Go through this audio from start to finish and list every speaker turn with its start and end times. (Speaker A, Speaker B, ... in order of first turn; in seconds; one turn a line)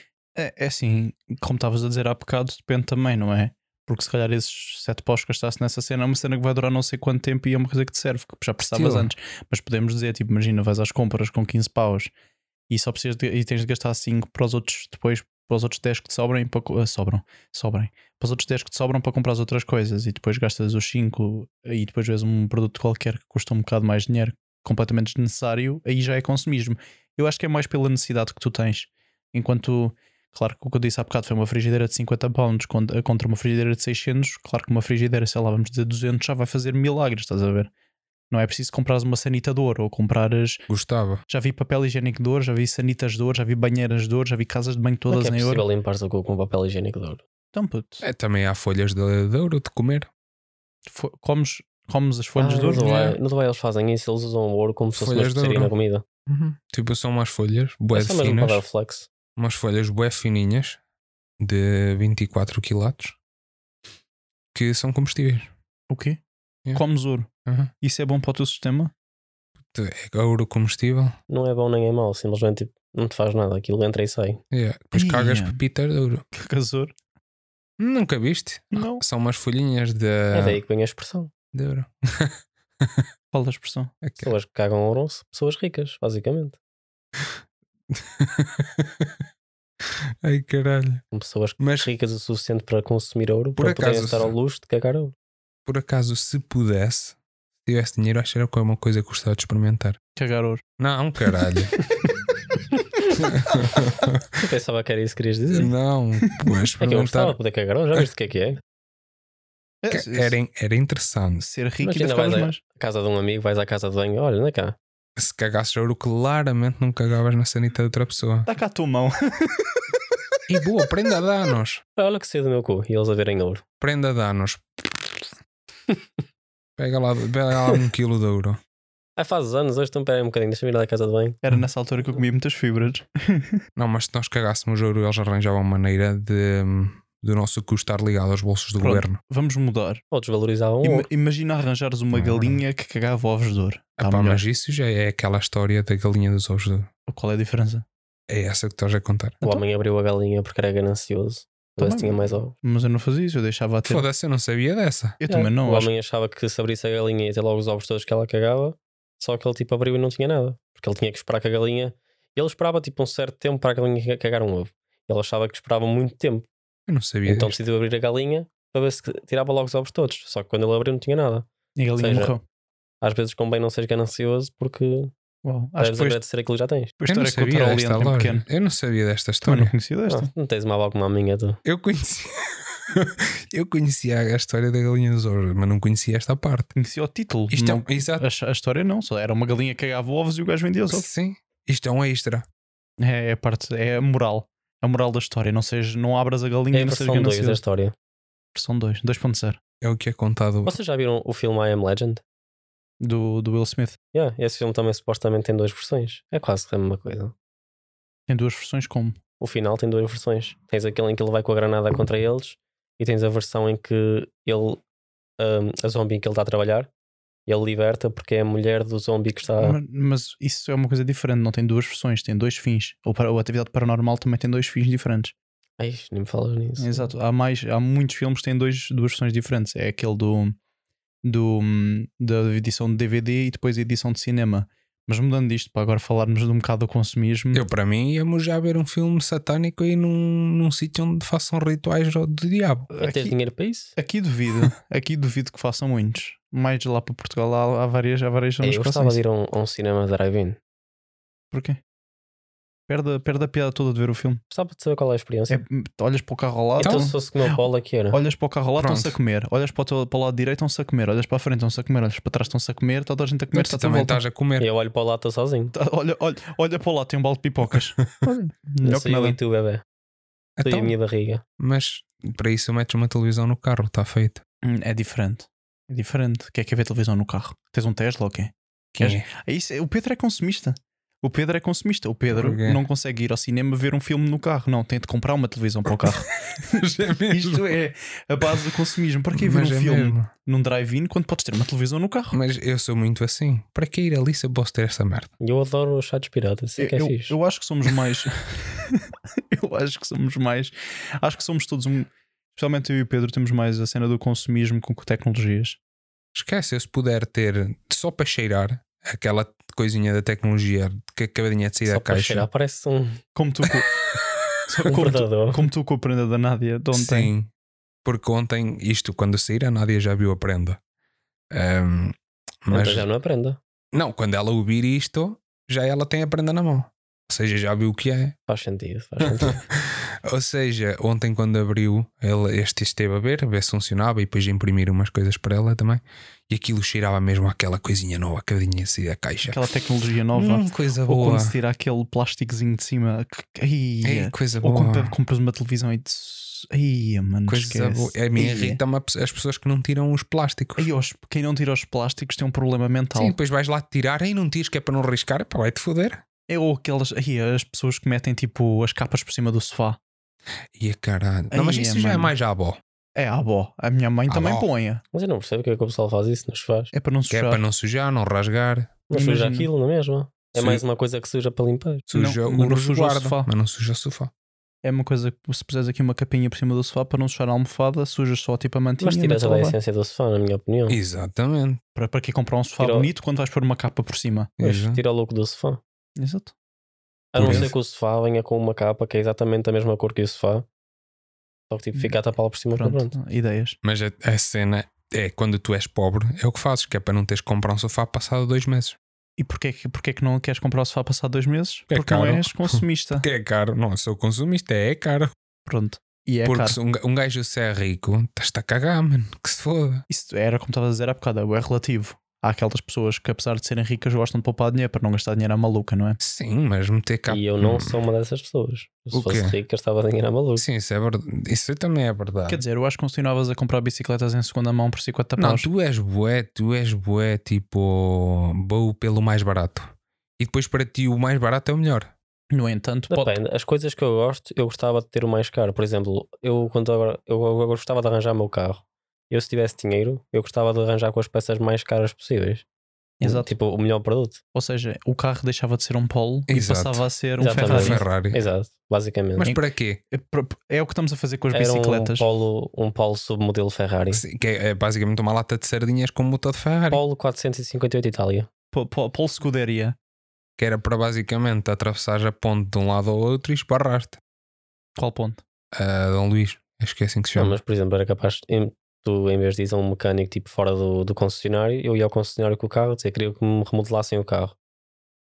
Speaker A: 0.4-12.1
Speaker B: 8.6-9.1
Speaker A: 12.7-37.7
Speaker A: 38.3-40.6
Speaker B: 40.7-41.2
Speaker A: 41.3-45.6
Speaker C: 45.1-47.2
Speaker A: 47.5-48.0
Speaker B: 48.0-50.1
Speaker A: 50.9-53.2
Speaker C: 52.4-56.0
Speaker B: 52.7-53.1
Speaker B: 55.0-55.7
Speaker B: 56.3-58.6
Speaker C: 57.9-59.1
Speaker B: 59.4-60.8
Speaker B: 61.4-63.2
Speaker B: 64.5-65.5
Speaker A: 65.9-66.2
Speaker A: 66.8-67.3
Speaker B: 67.5-67.7
Speaker A: 67.8-68.9
Speaker B: 69.7-71.2
Speaker C: 71.3-74.4
Speaker B: 74.5-76.2
Speaker A: 74.9-75.6
Speaker A: 76.3-76.9
Speaker B: 77.8-80.6
Speaker A: 78.7-79.0
Speaker C: 80.3-81.3
Speaker B: 81.5-83.1
Speaker A: 83.3-83.9
Speaker B: 84.0-84.3
Speaker C: 84.2-86.6
Speaker B: 87.9-89.2
Speaker B: 90.2-91.0
Speaker C: 91.1-95.1
Speaker B: 91.6-91.9
Speaker B: 93.6-94.3
Speaker B: 95.7-100.0
Speaker A: 100.2-100.6
Speaker B: 100.8-101.7
Speaker C: 102.7-103.1
Speaker B: 103.2-104.3
Speaker C: 104.4-105.7
Speaker B: 105.5-107.4
Speaker C: 106.8-108.6
Speaker A: 109.8-110.4
Speaker B: 109.9-111.4
Speaker A: 111.4-112.6
Speaker C: 111.8-114.8
Speaker B: 115.2-118.5
Speaker A: 118.5-119.8
Speaker B: 120.5-121.8
Speaker C: 122.0-123.6
Speaker B: 123.8-124.6
Speaker B: 126.8-128.6
Speaker C: 129.2-131.4
Speaker A: 131.4-133.6
Speaker B: 133.8-139.2
Speaker A: 138.8-140.0
Speaker C: 140.1-141.1
Speaker A: 140.8-144.4
Speaker B: 142.1-142.6
Speaker B: 144.0-146.9
Speaker A: 147.1-147.8
Speaker B: 148.3-149.4
Speaker C: 149.4-152.5
Speaker A: 151.8-154.1
Speaker B: 153.8-155.2
Speaker A: 155.2-155.9
Speaker C: 155.3-166.5
Speaker B: 166.9-167.6
Speaker C: 167.3-172.3
Speaker A: 171.8-172.4
Speaker C: 173.0-175.1
Speaker A: 175.4-176.2
Speaker C: 175.8-176.9
Speaker A: 177.0-178.4
Speaker B: 177.1-179.7
Speaker A: 179.4-180.3
Speaker C: 180.1-181.6
Speaker B: 181.7-186.7
Speaker A: 186.8-191.1
Speaker B: 187.5-188.2
Speaker B: 190.9-192.5
Speaker A: 193.0-197.6
Speaker C: 196.7-197.9
Speaker A: 198.6-199.6
Speaker B: 199.8-200.8
Speaker C: 200.7-202.2
Speaker A: 203.0-204.0
Speaker C: 204.1-207.3
Speaker A: 208.3-209.2
Speaker C: 209.4-214.8
Speaker C: 215.4-216.9
Speaker C: 217.5-219.8
Speaker A: 219.6-225.3
Speaker C: 225.8-227.1
Speaker A: 226.8-230.6
Speaker A: 231.2-237.6
Speaker B: 237.5-242.9
Speaker A: 242.9-243.3
Speaker C: 243.0-243.9
Speaker A: 244.0-249.2
Speaker C: 248.6-250.6
Speaker A: 251.5-251.8
Speaker A: 252.9-254.4
Speaker C: 254.5-255.6
Speaker A: 255.5-264.2
Speaker C: 256.8-258.2
Speaker B: 256.8-257.1
Speaker B: 258.8-259.2
Speaker B: 263.5-264.7
Speaker C: 264.6-265.7
Speaker A: 265.7-269.4
Speaker C: 268.8-269.8
Speaker B: 270.6-270.9
Speaker C: 270.6-271.4
Speaker B: 271.6-274.4
Speaker A: 274.6-292.4
Speaker B: 279.0-279.3
Speaker B: 282.3-282.8
Speaker B: 286.0-287.7
Speaker B: 288.4-288.7
Speaker B: 289.3-290.3
Speaker B: 292.3-295.3
Speaker C: 295.4-297.4
Speaker A: 296.8-305.8
Speaker B: 306.3-312.5
Speaker C: 311.9-313.2
Speaker A: 313.4-313.9
Speaker A: 314.7-317.3
Speaker C: 314.9-315.7
Speaker B: 316.9-317.5
Speaker B: 318.1-320.8
Speaker B: 321.5-323.1
Speaker C: 322.7-323.6
Speaker B: 323.9-328.4
Speaker C: 328.5-329.6
Speaker B: 329.2-339.6
Speaker A: 339.4-348.8
Speaker B: 340.3-341.6
Speaker B: 344.0-345.2
Speaker B: 347.5-350.9
Speaker A: 350.8-353.4
Speaker B: 353.1-356.2
Speaker A: 356.5-360.0
Speaker B: 360.7-362.8
Speaker A: 361.5-362.3
Speaker A: 363.2-365.0
Speaker B: 364.3-364.7
Speaker C: 365.1-366.9
Speaker A: 366.9-367.6
Speaker B: 367.3-369.0
Speaker C: 369.1-372.0
Speaker A: 369.1-369.7
Speaker B: 370.6-370.8
Speaker B: 372.1-374.3
Speaker A: 372.1-373.5
Speaker A: 374.8-379.8
Speaker C: 379.0-381.0
Speaker B: 380.9-381.8
Speaker A: 382.0-384.5
Speaker C: 382.8-383.1
Speaker B: 384.6-385.0
Speaker C: 384.6-385.8
Speaker A: 386.2-386.5
Speaker C: 387.3-390.7
Speaker B: 387.4-387.7
Speaker A: 387.4-387.7
Speaker C: 391.7-393.1
Speaker A: 392.8-393.8
Speaker B: 393.8-399.0
Speaker A: 399.4-403.3
Speaker B: 401.9-405.3
Speaker A: 405.7-406.8
Speaker B: 406.4-410.1
Speaker A: 410.1-416.2
Speaker B: 416.2-418.0
Speaker C: 417.3-420.6
Speaker B: 419.1-419.6
Speaker B: 420.6-422.6
Speaker A: 422.5-425.7
Speaker B: 425.4-432.1
Speaker A: 432.5-433.4
Speaker C: 433.1-442.6
Speaker A: 443.2-443.5
Speaker C: 443.2-444.4
Speaker A: 444.5-448.0
Speaker B: 446.5-447.0
Speaker C: 447.4-449.5
Speaker B: 447.6-448.4
Speaker B: 449.4-450.0
Speaker A: 449.4-452.3
Speaker C: 451.5-454.2
Speaker B: 454.1-457.0
Speaker C: 456.9-458.5
Speaker A: 458.7-460.0
Speaker B: 460.6-464.2
Speaker A: 465.0-465.4
Speaker B: 465.7-467.6
Speaker C: 467.4-474.6